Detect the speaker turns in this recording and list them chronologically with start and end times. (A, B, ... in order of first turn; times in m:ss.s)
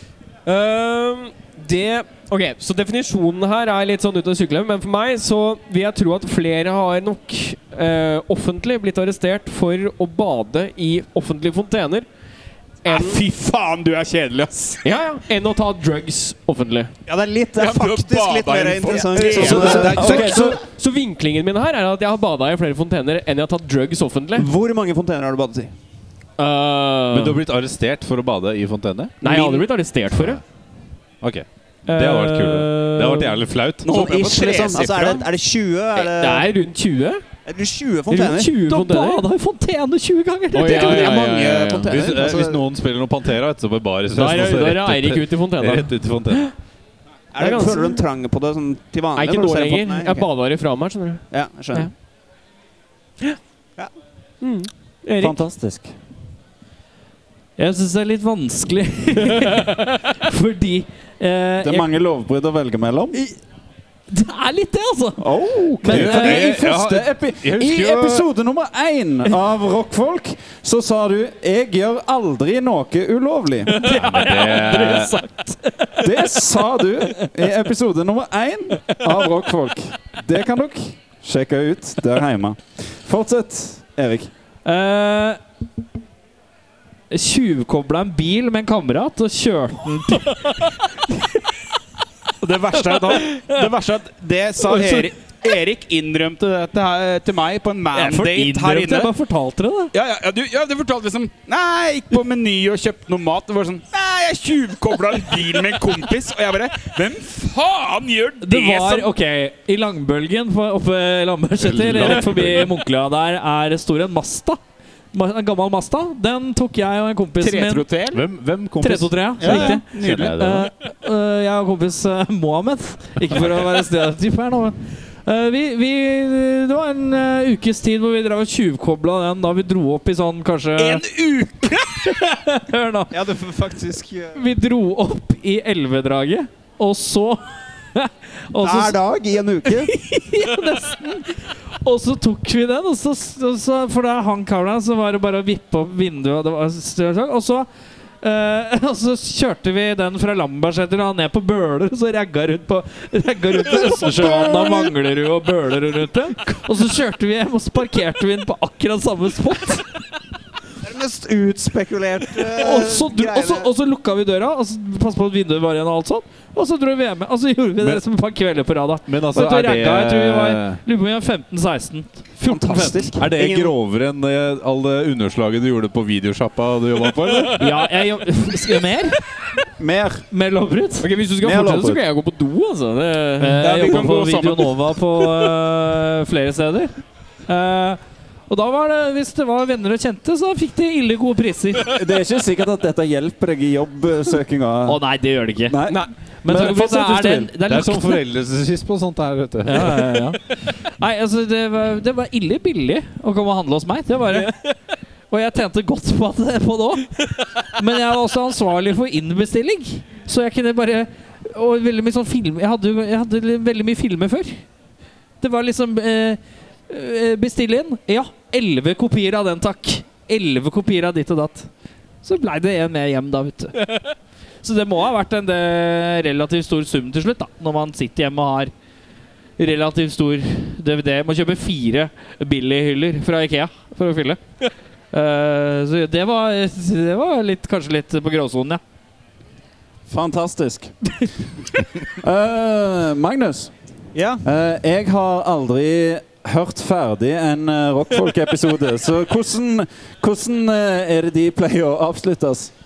0:00.4-0:12.0 A
0:12.8-0:13.2 A
0:12.9-0:14.8 B
0:14.8-0:16.9 A
0:17.0-0:20.6 C
0:17.5-0:20.2 B
0:19.2-0:20.6 D
0:19.4-0:24.5 A
0:24.4-0:25.7 C
0:26.4-0:27.4 A
0:27.1-0:29.2 E
0:29.2-0:30.4 A
0:29.2-0:29.6 C
0:30.1-0:30.4 E
0:31.2-0:33.9 E
0:31.9-0:33.4 F
0:33.8-0:35.3 B
0:33.8-0:36.5 C
0:35.9-0:37.2 A
0:37.4-0:38.6 C
0:38.1-0:41.8 F
0:38.4-0:39.2 A
0:40.5-0:42.0 A
0:40.6-0:42.6 C
0:41.9-0:46.5 E
0:44.1-0:46.5 A
0:47.3-0:50.3 C
0:47.4-0:48.0 A
0:49.2-0:51.9 A
0:51.3-0:51.9 C
0:54.4-0:55.4 A
0:55.2-0:55.9 D
0:57.6-1:01.9 F
0:59.3-0:59.7 A
1:01.6-1:03.2 D
1:04.1-1:06.5 F
1:05.2-1:13.7 D
1:05.9-1:08.2 E
1:13.7-1:16.1 F
1:13.9-1:15.2 E
1:16.0-1:24.3 D
1:24.6-1:25.4 F
1:27.1-1:30.8 F
1:32.4-1:39.1 B
1:32.8-1:33.7 F
1:34.6-1:35.1 F
1:37.9-1:39.9 F
1:39.9-1:49.1 B
1:48.4-1:54.6 F
1:51.6-1:52.7 E
1:55.1-1:57.8 F
1:57.4-1:58.2 B
1:58.1-2:00.7 E
1:58.8-2:11.0 F
1:59.4-2:00.4 B
2:10.8-2:12.1 B
2:11.9-2:13.1 F
2:13.1-2:14.4 C
2:14.3-2:17.4 F
2:17.9-2:19.0 F
2:18.6-2:19.9 C
2:19.9-2:27.7 F
2:28.2-2:40.0 F
2:34.1-2:34.9 C
2:40.8-2:43.7 C
2:42.5-2:53.1 F
2:49.0-2:50.8 E
2:52.4-2:53.8 C
2:53.2-2:57.8 E
2:57.5-2:59.2 F
2:59.8-3:00.2 D
3:00.3-3:01.1 F
3:01.0-3:03.7 A
3:01.4-3:02.0 D
3:03.4-3:06.9 F
3:03.6-3:04.8 B
3:07.5-3:11.9 F
3:11.9-3:15.0 D
3:14.8-3:15.8 F
3:15.7-3:17.5 D
3:16.4-3:18.2 F
3:17.6-3:20.3 E
3:19.6-3:24.5 F
3:24.3-3:24.7 A
3:25.3-3:27.1 F
3:27.7-3:34.6 F
3:35.4-3:41.7 F
3:42.2-3:43.9 F
3:44.6-3:48.7 F
3:49.6-3:54.4 F
3:55.1-3:58.8 F
4:00.1-4:00.9 D
4:02.1-4:03.7 D
4:04.1-4:04.4 C
4:04.4-4:12.7 D